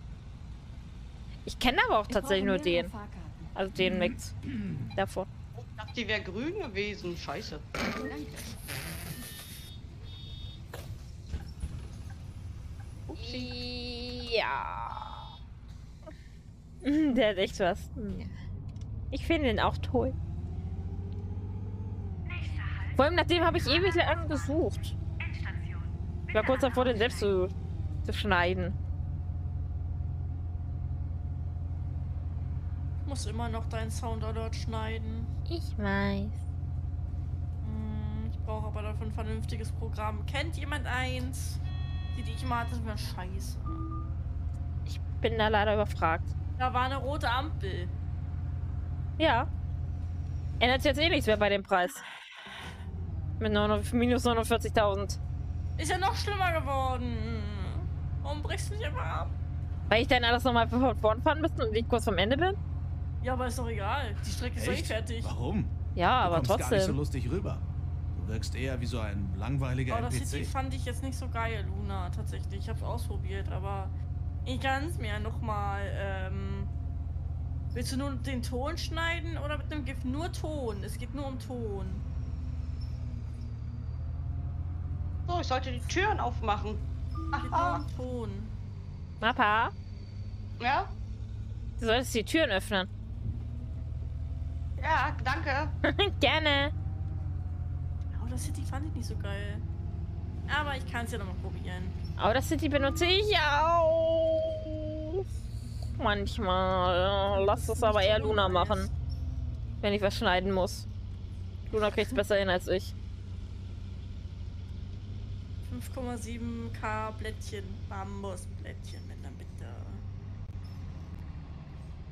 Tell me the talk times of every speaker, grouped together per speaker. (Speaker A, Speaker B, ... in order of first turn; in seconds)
Speaker A: 1.4-2.9, 3.5-4.3, 4.9-5.3, 13.2-15.3, 16.8-18.3, 19.1-20.1, 22.8-25.0, 26.3-27.5, 28.1-28.8, 35.5-36.4, 44.9-46.3, 49.2-49.5, 50.6-52.0, 53.4-55.2, 59.9-62.6, 66.0-67.0, 89.2-89.7, 91.8-92.9, 95.8-96.7, 102.2-105.2, 106.0-108.9, 109.8-110.8, 111.7-112.9
Speaker B: 2.1-3.5, 7.9-8.6
Speaker C: 5.5-7.7, 13.1-13.5, 85.3-87.8, 90.6-90.9, 94.8-95.7
Speaker D: 33.0-35.3, 37.6-41.6, 42.1-43.8, 46.6-47.9, 55.8-59.3, 63.2-65.3, 69.9-76.7, 77.7-82.0, 87.3-88.5, 98.1-99.6, 100.5-102.0, 107.3-108.9, 115.6-120.0
Speaker E: 64.5-70.5